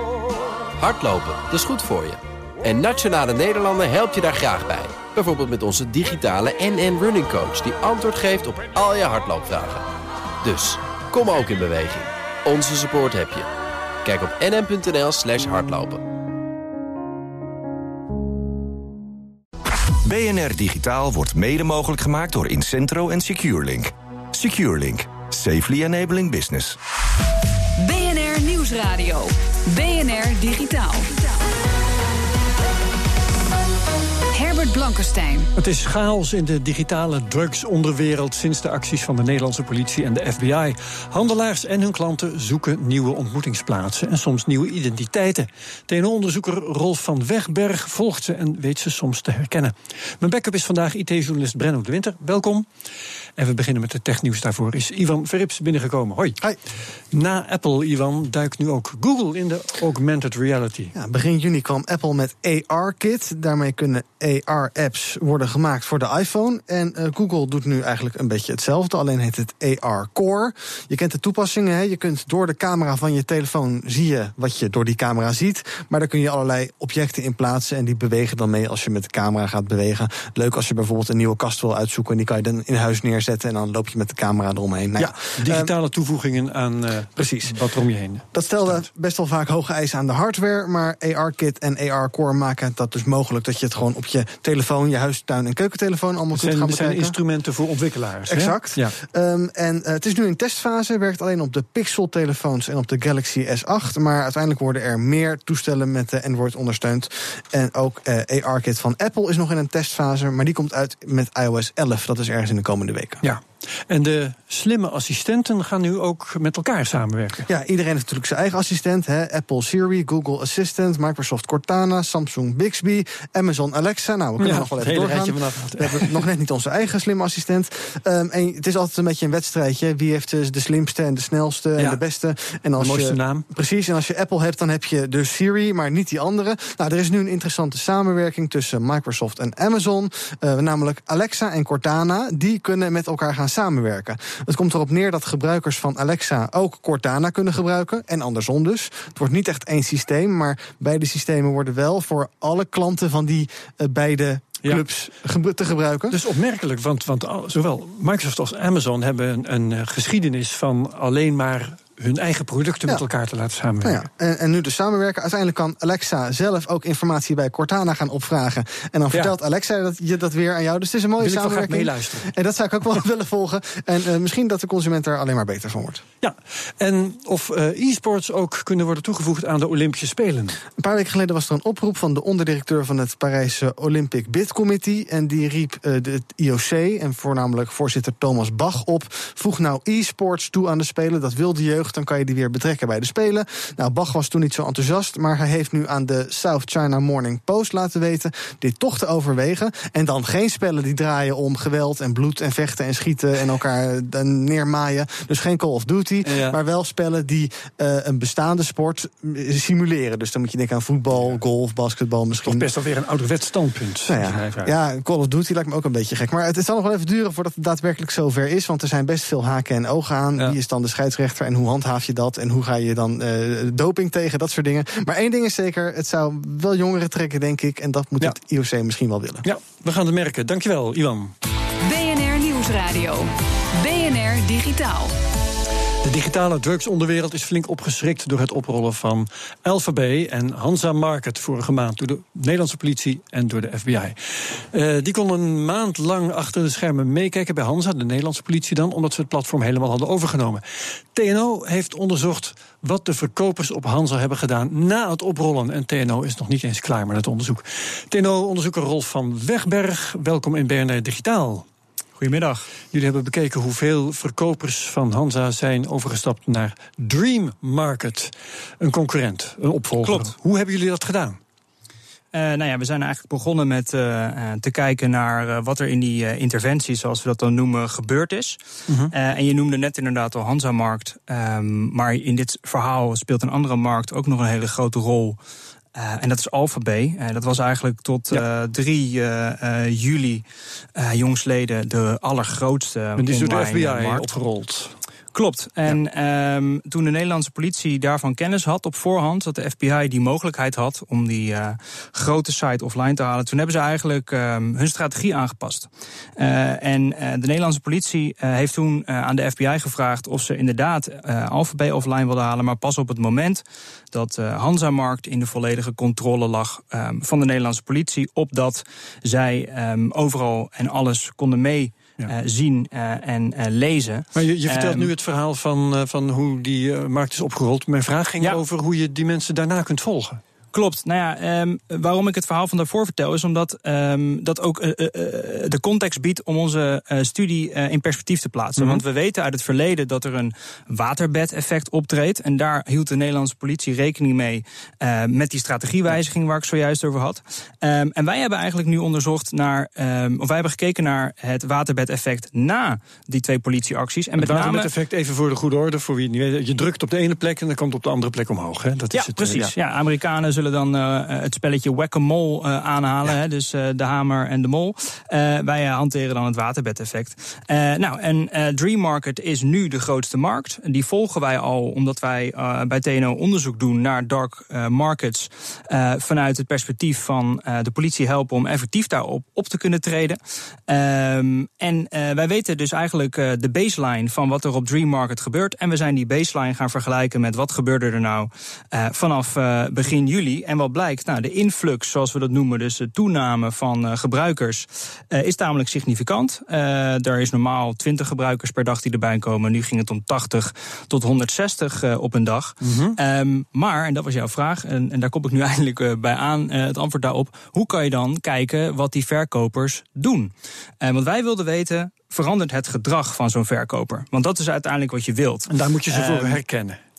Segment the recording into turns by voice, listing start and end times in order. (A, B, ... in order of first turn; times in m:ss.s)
0:00.8-0:09.8 A
0:10.4-0:13.5 A
0:14.0-0:16.0 A
0:20.0-0:26.8 B
0:27.8-0:31.1 C
0:34.3-0:35.5 C
0:35.6-0:52.6 D
0:53.4-0:56.4 D
0:57.1-1:00.9 D
1:00.9-1:25.7 E
1:25.0-1:28.8 D
1:27.2-1:27.6 E
1:28.3-1:37.2 E
1:36.3-1:38.9 D
1:38.2-1:53.2 E
1:53.2-1:57.4 D
1:57.5-2:36.2 E
2:04.4-2:06.2 D
2:12.8-2:13.4 D
2:36.1-2:44.1 D
2:43.8-2:56.0 E
2:51.2-2:52.3 D
2:56.2-3:00.6 D
3:00.8-3:32.7 E
3:26.2-3:26.6 D
3:32.4-3:34.7 D
3:34.1-3:49.4 E
3:49.4-3:51.3 D
3:51.8-3:55.1 C
3:56.0-4:21.6 D
4:22.2-4:22.7 F
4:22.9-4:31.4 D
4:30.0-4:30.3 F
4:32.3-4:38.6 F
4:39.1-4:45.4 F
4:45.9-4:50.4 F
4:51.0-4:54.3 F
4:53.2-4:54.9 D
4:55.3-5:25.1 F
5:24.3-5:30.4 D
5:30.7-5:54.9 F
5:38.8-5:39.0 D
5:54.4-5:59.7 D
5:59.1-6:56.6 F
6:42.8-6:43.2 D
6:55.7-6:57.0 D